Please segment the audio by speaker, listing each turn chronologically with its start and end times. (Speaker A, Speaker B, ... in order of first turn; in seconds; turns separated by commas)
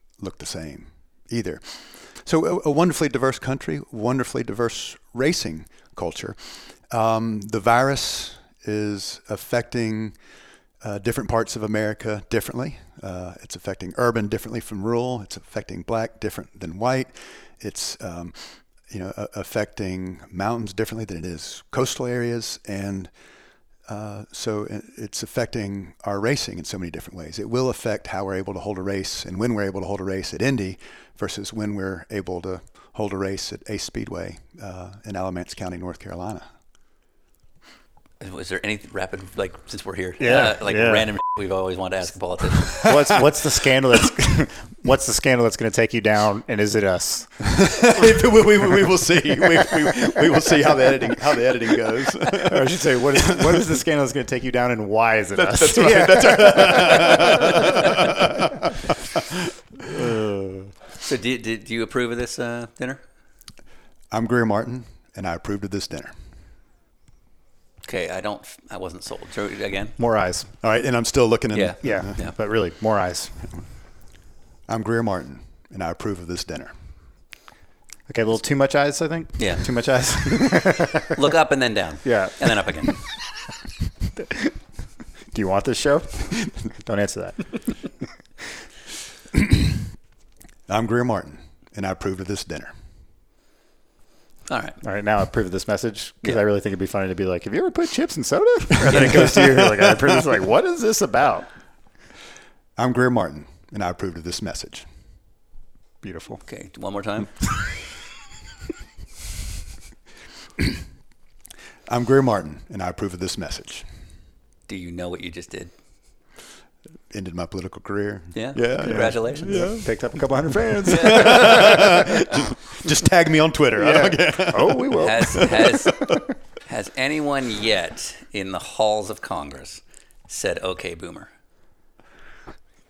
Speaker A: 0.2-10.2, Speaker A: 10.8-23.1, Speaker A: 23.9-36.5, Speaker B: 38.2-43.0, Speaker C: 40.2-41.1, Speaker C: 42.8-47.4, Speaker A: 47.6-53.6, Speaker C: 52.5-57.5, Speaker A: 55.3-58.3, Speaker C: 59.9-60.7, Speaker B: 61.0-63.0, Speaker A: 64.1-66.2, Speaker B: 67.8-70.0, Speaker C: 70.0-70.5, Speaker A: 70.6-72.2, Speaker B: 71.5-72.3, Speaker C: 71.8-73.3, Speaker A: 74.7-76.8, Speaker C: 78.1-81.1, Speaker B: 79.4-79.7, Speaker B: 81.1-83.1, Speaker C: 82.0-82.6, Speaker C: 85.3-87.8, Speaker A: 89.3-89.6, Speaker A: 90.7-92.7, Speaker B: 94.5-94.8, Speaker C: 94.8-101.5, Speaker A: 98.9-100.0, Speaker A: 102.8-104.9, Speaker C: 106.0-106.4, Speaker B: 106.5-107.5, Speaker A: 111.9-113.9, Speaker B: 114.7-115.7, Speaker A: 117.1-119.9, Speaker B: 118.3-119.7, Speaker C: 118.8-122.0, Speaker A: 120.9-126.2, Speaker B: 120.9-121.5, Speaker C: 123.8-125.5, Speaker B: 125.0-125.9, Speaker B: 126.7-131.3